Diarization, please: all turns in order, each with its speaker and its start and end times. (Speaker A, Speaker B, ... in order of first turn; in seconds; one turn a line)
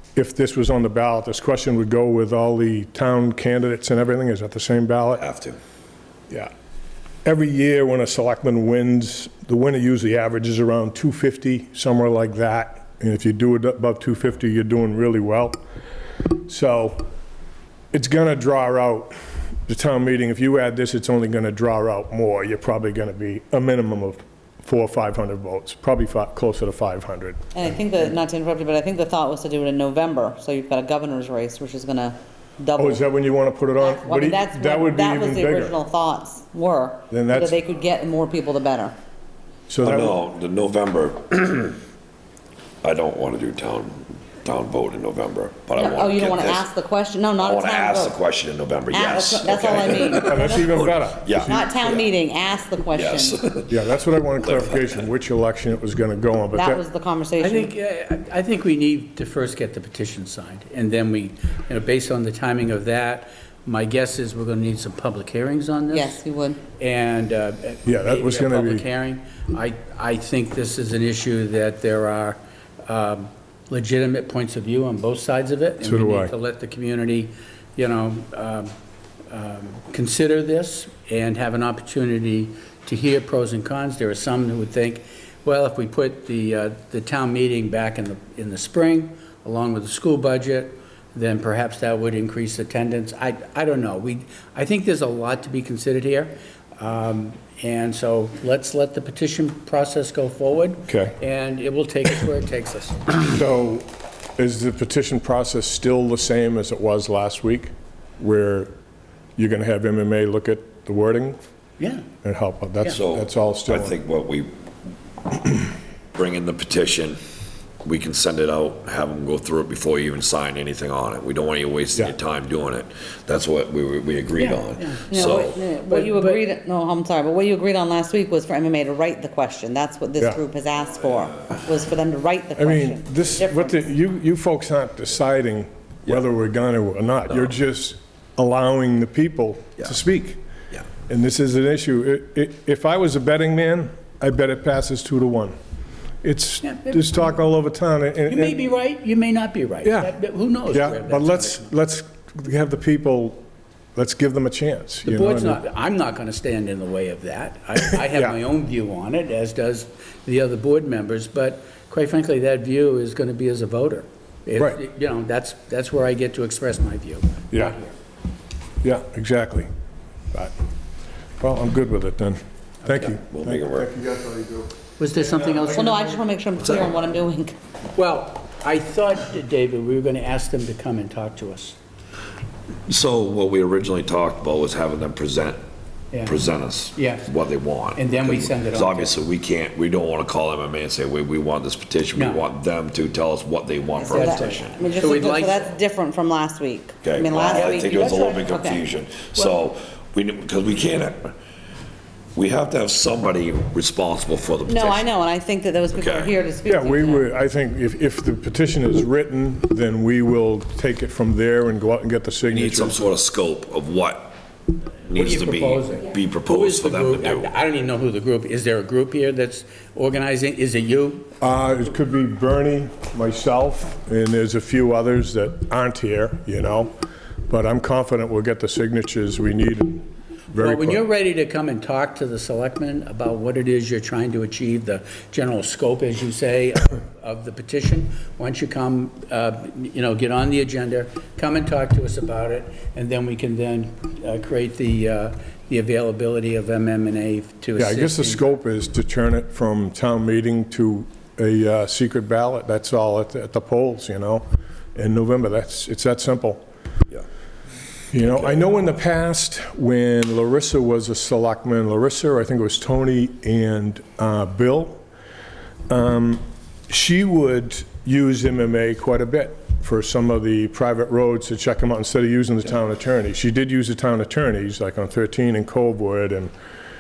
Speaker A: 0.1-5.2
Speaker B: 5.2-5.6
Speaker A: 7.2-15.6
Speaker A: 16.3-17.1
Speaker A: 17.9-19.1
Speaker A: 19.7-27.4
Speaker C: 27.5-33.0
Speaker A: 32.8-35.8
Speaker C: 33.8-38.9
Speaker A: 37.1-37.6
Speaker A: 39.7-40.2
Speaker B: 39.8-41.8
Speaker B: 42.8-46.7
Speaker C: 45.8-48.2
Speaker B: 47.4-52.1
Speaker C: 48.9-53.4
Speaker A: 50.2-51.6
Speaker B: 52.9-53.8
Speaker A: 53.7-56.8
Speaker B: 54.4-55.0
Speaker C: 56.5-57.7
Speaker D: 57.4-66.2
Speaker C: 65.9-66.6
Speaker D: 66.8-78.7
Speaker A: 67.8-68.8
Speaker A: 75.8-76.3
Speaker D: 79.3-103.2
Speaker A: 100.9-101.2
Speaker A: 103.2-108.7
Speaker A: 109.4-111.4
Speaker D: 111.8-112.0
Speaker A: 112.2-114.0
Speaker B: 112.9-114.5
Speaker B: 116.1-117.2
Speaker B: 117.8-125.6
Speaker D: 124.4-126.4
Speaker C: 125.1-133.8
Speaker A: 132.6-140.4
Speaker A: 141.1-145.6
Speaker A: 146.2-148.6
Speaker D: 146.6-147.1
Speaker D: 148.3-151.7
Speaker A: 149.8-150.1
Speaker A: 150.7-153.4
Speaker A: 153.9-155.6
Speaker D: 155.0-167.9
Speaker A: 158.0-158.3
Speaker A: 168.8-169.7
Speaker A: 171.4-176.0
Speaker B: 173.1-173.9
Speaker D: 175.0-176.2
Speaker C: 175.7-177.5
Speaker D: 177.9-181.8
Speaker B: 182.9-185.6
Speaker B: 186.2-195.5
Speaker D: 186.9-187.3
Speaker D: 187.9-189.2
Speaker D: 192.2-192.4
Speaker C: 194.0-198.8
Speaker D: 194.1-195.7
Speaker B: 197.0-201.3
Speaker D: 197.6-198.8
Speaker B: 202.3-205.0
Speaker C: 204.7-207.3
Speaker B: 205.9-206.3
Speaker A: 206.6-213.0
Speaker B: 212.5-214.3
Speaker B: 215.1-217.5
Speaker D: 215.1-221.3
Speaker A: 221.4-226.9
Speaker A: 227.5-231.0
Speaker D: 230.5-248.4
Speaker A: 247.8-254.4
Speaker A: 254.9-256.6
Speaker A: 258.1-265.0
Speaker B: 258.3-258.6
Speaker A: 265.9-276.5